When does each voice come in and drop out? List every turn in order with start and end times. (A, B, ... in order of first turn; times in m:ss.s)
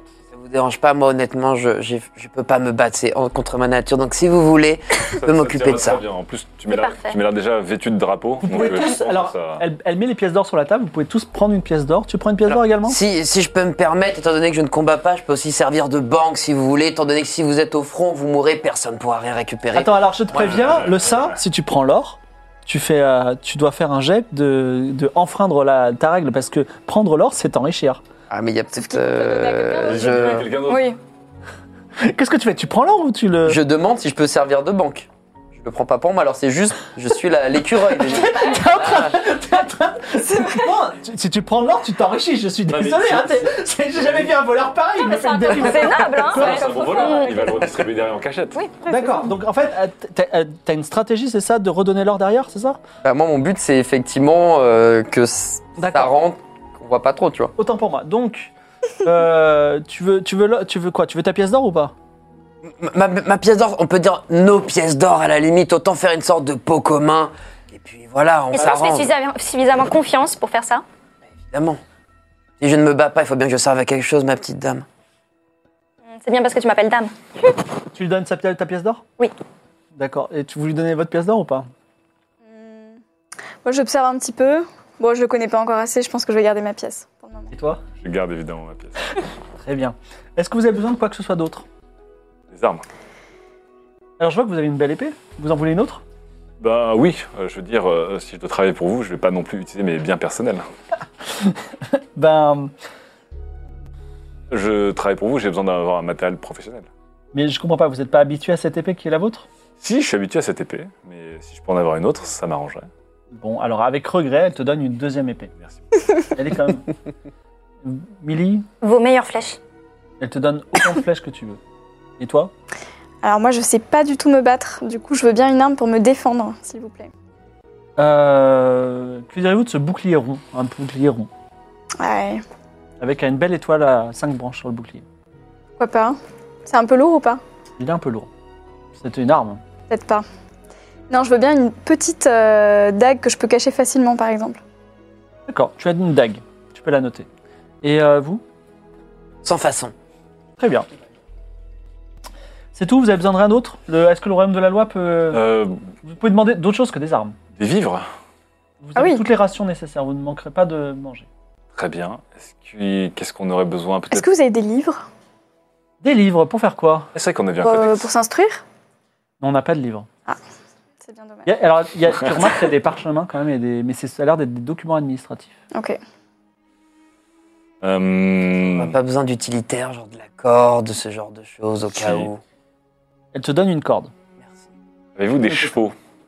0:00.3-0:06.0 A
0:05.1-0:09.6 B
0:06.7-0:07.2 C
0:08.4-0:13.0 D
0:12.5-0:19.9 A
0:19.7-0:28.0 D
0:20.4-0:21.4 B
0:28.3-0:30.5 A
0:28.9-0:30.1 E
0:29.8-0:30.9 B
0:32.0-0:33.6 D
0:33.4-0:39.0 A
0:38.0-0:47.2 D
0:42.7-0:44.3 B
0:45.0-0:47.6 C
0:45.7-0:48.6 B
0:48.8-0:52.8 D
0:53.0-0:57.5 A
0:55.8-0:56.1 D
0:57.6-1:01.9 D
1:02.6-1:09.1 A
1:08.5-1:10.8 C
1:11.5-1:11.8 A
1:12.6-1:14.8 A
1:16.1-1:17.6 C
1:17.9-1:19.0 D
1:19.9-1:21.7 D
1:22.5-1:23.0 E
1:23.6-1:27.5 E
1:27.5-1:27.8 D
1:28.0-1:29.2 B
1:29.6-1:31.6 D
1:32.5-1:32.8 B
1:34.2-1:36.0 D
1:36.6-1:40.6 B
1:41.4-1:42.7 D
1:44.5-1:46.9 B
1:47.3-1:49.5 D
1:49.8-1:52.9 B
1:53.3-1:55.5 D
1:55.6-1:56.0 B
1:56.3-1:56.9 D
1:57.8-1:58.6 D
1:58.8-1:59.6 C
2:00.2-2:01.6 D
2:02.2-2:02.5 D
2:03.2-2:07.1 E
2:08.0-2:11.3 D
2:12.0-2:12.4 E
2:13.0-2:15.0 D
2:15.8-2:17.4 E
2:17.8-2:18.3 D
2:19.0-2:19.6 D
2:19.9-2:20.2 E
2:21.1-2:24.6 E
2:25.5-2:27.3 D
2:27.8-2:28.4 D
2:29.4-2:29.9 A
2:30.6-2:30.8 D
2:32.7-2:35.4 D
2:35.3-2:35.8 B
2:36.0-2:37.4 D
2:37.6-2:38.0 B
2:38.8-2:41.3 D
2:39.0-2:39.2 E
2:41.7-2:44.3 B
2:44.1-2:45.0 E
2:46.0-2:47.1 D
2:47.1-2:48.1 B
2:47.6-2:48.6 E
2:49.4-2:50.1 D
2:51.0-2:51.6 E
2:51.4-2:55.5 D
2:55.7-2:56.0 E
2:57.8-2:58.9 B
2:58.7-3:02.4 A
3:01.9-3:02.3 B
3:03.3-3:04.1 D
3:05.2-3:05.9 B